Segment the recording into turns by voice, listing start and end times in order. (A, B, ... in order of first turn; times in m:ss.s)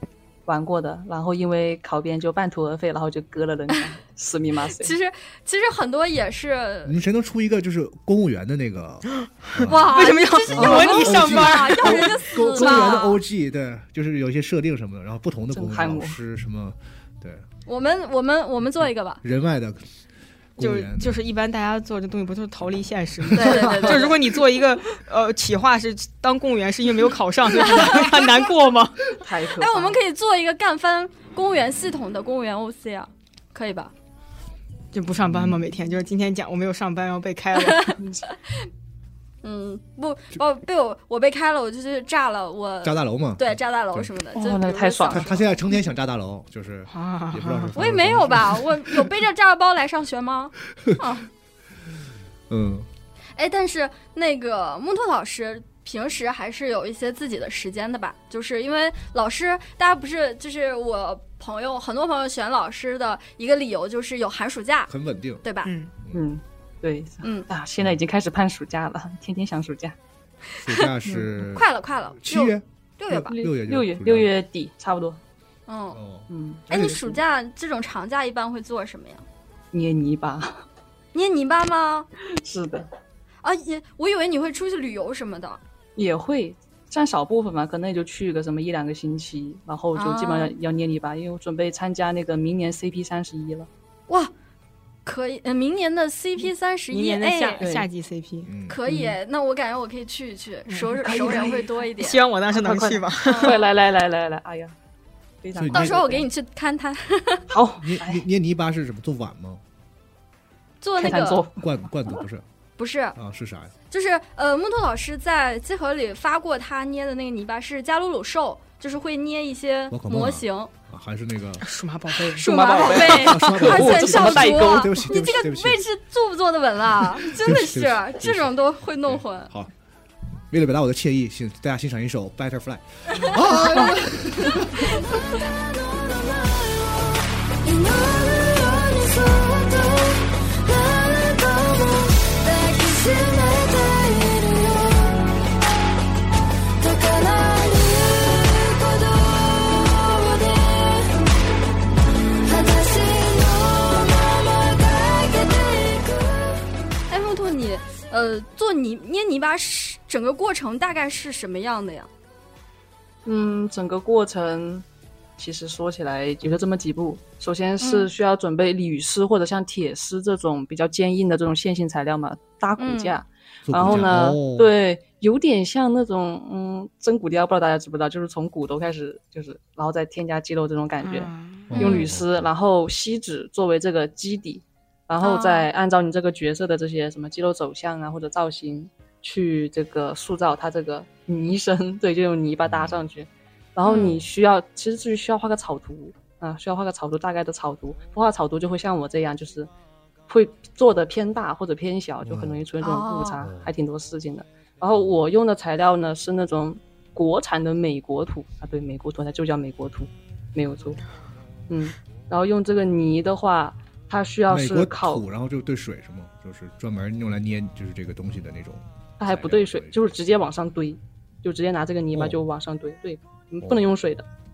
0:00.5-0:04.9 A
0:04.8-0:07.0 B
0:06.8-0:17.4 C
0:09.6-0:12.9 D
0:09.7-0:13.2 B
0:15.5-0:16.2 A
0:17.7-0:19.2 B
0:19.2-0:19.8 C
0:20.6-0:21.2 C
0:20.6-0:29.0 D
0:23.3-0:24.0 C
0:23.3-0:24.1 B
0:27.6-0:28.3 B
0:29.2-0:30.0 A
0:29.6-0:33.9 B
0:34.9-0:38.0 D
0:35.2-0:35.6 C
0:39.4-0:45.4 B
0:42.8-0:44.1 C
0:44.4-0:45.3 A
0:45.1-0:49.1 C
0:46.9-0:47.7 D
0:47.7-0:51.3 B
0:52.5-0:52.9 C
0:53.4-1:04.9 B
1:04.9-1:05.4 C
1:05.4-1:05.7 B
1:05.6-1:05.9 D
1:06.1-1:10.0 A
1:10.6-1:11.7 C
1:10.7-1:13.3 B
1:12.2-1:14.4 C
1:13.3-1:15.2 A
1:15.7-1:16.0 B
1:15.9-1:17.0 C
1:16.3-1:17.0 A
1:16.7-1:19.2 B
1:19.7-1:20.7 A
1:21.1-1:22.1 B
1:22.3-1:22.9 A
1:23.4-1:25.6 B
1:26.0-1:33.7 A
1:30.0-1:30.5 B
1:35.0-1:37.6 B
1:36.9-1:38.5 D
1:37.6-1:37.9 A
1:38.4-1:38.8 C
1:38.7-1:42.2 B
1:38.9-1:39.2 A
1:40.7-1:43.6 D
1:41.2-1:41.5 A
1:42.5-1:44.7 A
1:43.2-1:43.6 B
1:45.4-1:46.3 A
1:45.6-1:46.1 C
1:45.7-1:47.4 B
1:47.5-1:48.2 A
1:47.8-1:49.6 C
1:50.8-1:51.4 B
1:51.0-1:51.7 A
1:51.6-1:52.4 C
1:52.8-1:53.2 B
1:53.2-1:53.7 C
1:53.9-2:00.7 B
1:59.9-2:01.7 C
2:01.6-2:03.3 D
2:02.4-2:05.1 A
2:02.4-2:09.5 B
2:03.1-2:05.8 C
2:07.2-2:09.7 C
2:10.5-2:14.9 C
2:13.3-2:13.9 B
2:14.6-2:25.3 E
2:26.8-2:31.4 E
2:32.4-2:36.6 E
2:37.1-2:42.1 B
2:43.2-2:44.8 A
2:45.4-3:19.7 A
2:47.8-2:48.1 B
2:52.8-2:53.2 B
2:53.7-2:54.7 C
3:01.0-3:01.8 D
3:01.7-3:02.5 C
3:01.8-3:02.1 B
3:05.2-3:05.7 B
3:12.6-3:13.1 C
3:13.8-3:14.1 B
3:13.9-3:14.3 C
3:20.3-3:31.0 A
3:22.2-3:22.6 C
3:22.8-3:23.4 B
3:23.4-3:23.7 C
3:31.7-3:35.2 A
3:34.5-3:40.0 C
3:39.2-3:44.2 A
3:42.1-3:42.4 C